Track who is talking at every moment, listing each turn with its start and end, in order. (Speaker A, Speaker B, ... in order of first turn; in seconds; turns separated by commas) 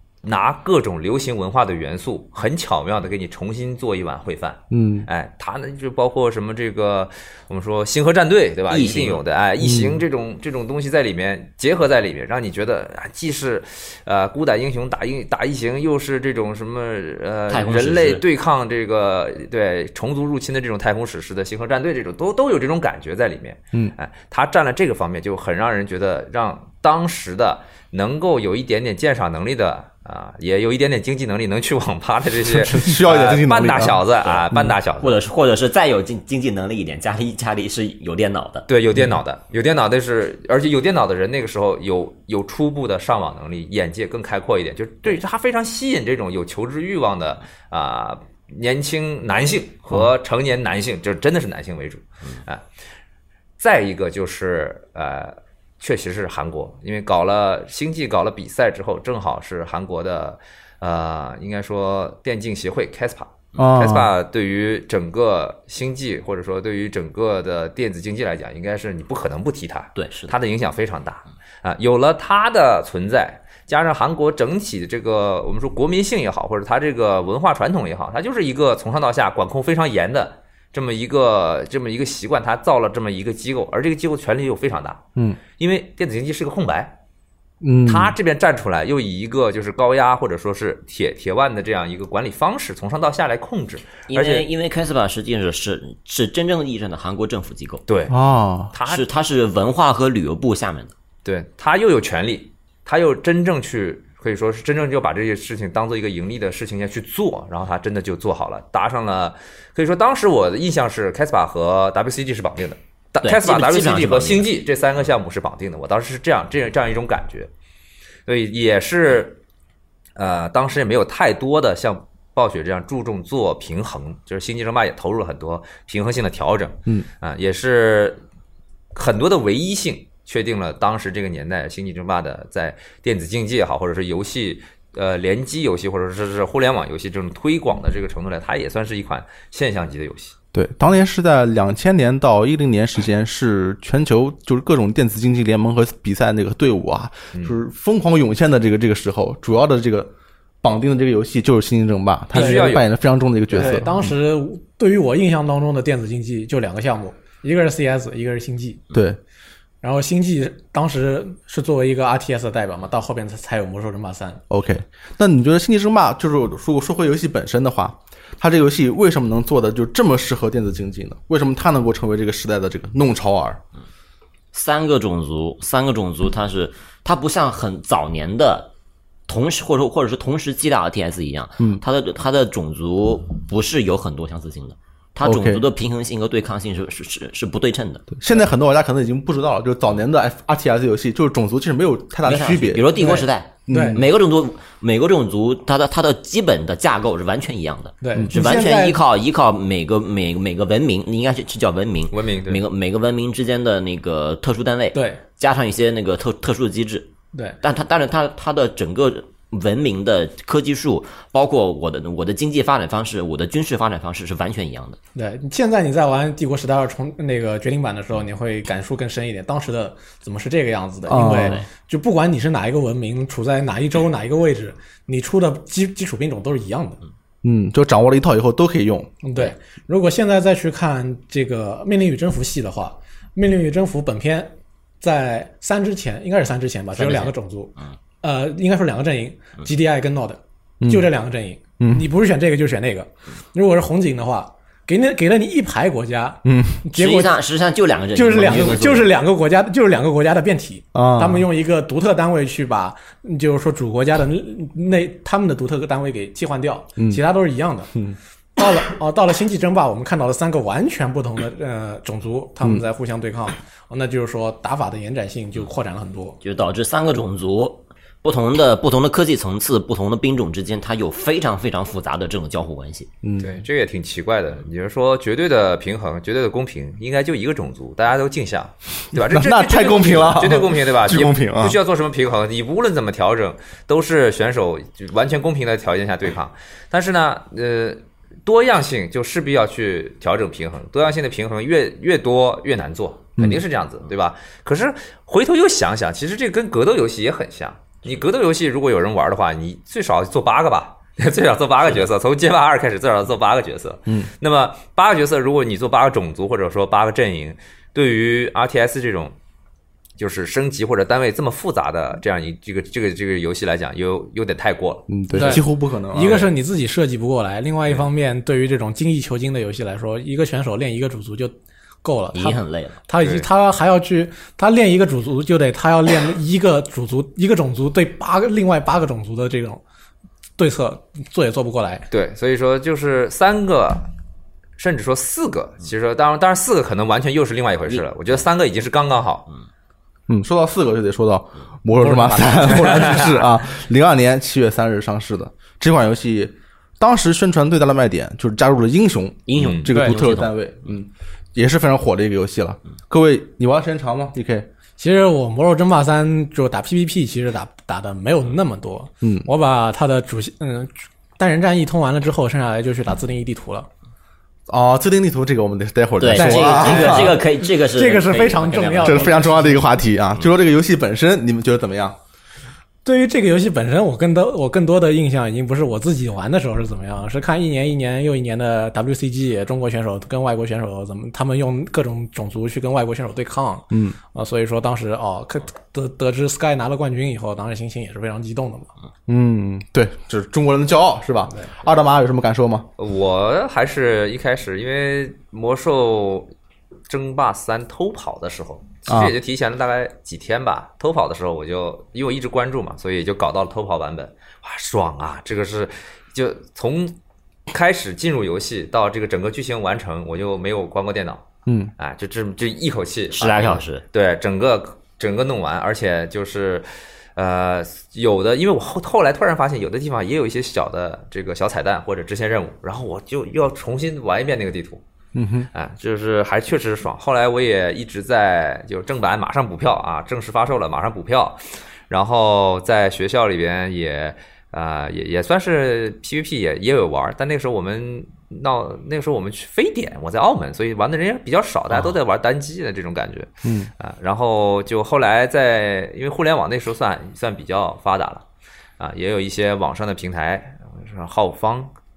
Speaker A: 0.2-35.2, Speaker B: 4.7-5.1, Speaker C: 8.7-9.2, Speaker B: 9.6-10.0, Speaker C: 17.5-18.2, Speaker B: 32.4-34.7, Speaker C: 35.0-38.7, Speaker A: 38.7-52.6, Speaker B: 38.9-39.2, Speaker A: 53.6-85.0, Speaker B: 63.5-64.1, Speaker C: 70.0-70.3, Speaker A: 85.5-87.0, Speaker B: 87.6-88.1, Speaker A: 87.8-94.5, Speaker C: 94.1-97.8, Speaker A: 97.9-98.2, Speaker B: 98.1-98.7, Speaker A: 98.7-99.0, Speaker C: 98.8-100.9, Speaker A: 101.2-117.5, Speaker C: 113.2-114.5, Speaker A: 118.2-119.4, Speaker A: 120.2-128.2, Speaker A: 128.9-140.3, Speaker B: 140.5-150.1, Speaker B: 150.6-154.1, Speaker A: 152.3-152.8, Speaker D: 152.3-152.8, Speaker D: 153.5-158.8, Speaker B: 158.9-159.2, Speaker D: 159.8-164.4, Speaker B: 164.5-173.6, Speaker C: 174.5-178.7, Speaker C: 179.3-188.1, Speaker B: 185.2-185.7, Speaker B: 188.2-193.1, Speaker C: 192.2-207.1, Speaker D: 192.9-194.0, Speaker B: 193.7-194.0, Speaker D: 198.0-199.0, Speaker B: 198.2-198.7, Speaker A: 202.1-202.6, Speaker D: 204.9-205.2, Speaker C: 207.6-215.0, Speaker D: 215.1-227.0, Speaker B: 221.1-221.6, Speaker C: 221.3-221.7, Speaker B: 227.4-229.1, Speaker D: 229.2-247.4, Speaker C: 236.9-237.9, Speaker B: 240.8-241.1, Speaker B: 241.8-242.0, Speaker B: 246.4-246.8, Speaker C: 246.9-249.1, Speaker D: 248.1-257.9, Speaker B: 250.9-251.5, Speaker D: 258.6-266.4, Speaker C: 266.4-273.1, Speaker B: 273.2-273.6, Speaker A: 273.4-309.3, Speaker B: 279.2-281.8, Speaker B: 293.4-293.6, Speaker A: 310.2-315.6, Speaker B: 315.1-316.5, Speaker D: 315.3-329.8, Speaker A: 316.2-316.5, Speaker C: 322.3-323.0, Speaker A: 323.2-323.5, Speaker D: 330.6-332.1, Speaker A: 332.1-334.1, Speaker A: 334.8-339.5, Speaker B: 340.3-354.7, Speaker D: 341.9-343.3, Speaker A: 342.8-343.4, Speaker C: 349.5-350.6, Speaker A: 349.6-349.9, Speaker D: 349.9-350.2, Speaker D: 355.0-363.9, Speaker B: 359.2-359.5, Speaker B: 364.7-367.4, Speaker C: 366.2-369.6, Speaker D: 366.3-369.9, Speaker B: 369.0-372.2, Speaker D: 373.0-388.9, Speaker B: 383.9-384.2, Speaker B: 389.3-392.9, Speaker A: 393.0-396.5, Speaker A: 397.1-407.1, Speaker B: 399.1-399.3, Speaker A: 407.7-411.4, Speaker B: 411.6-411.9, Speaker A: 412.0-425.0, Speaker C: 413.3-414.0, Speaker B: 425.3-425.7, Speaker A: 425.7-448.4, Speaker B: 443.6-443.9, Speaker A: 449.0-451.9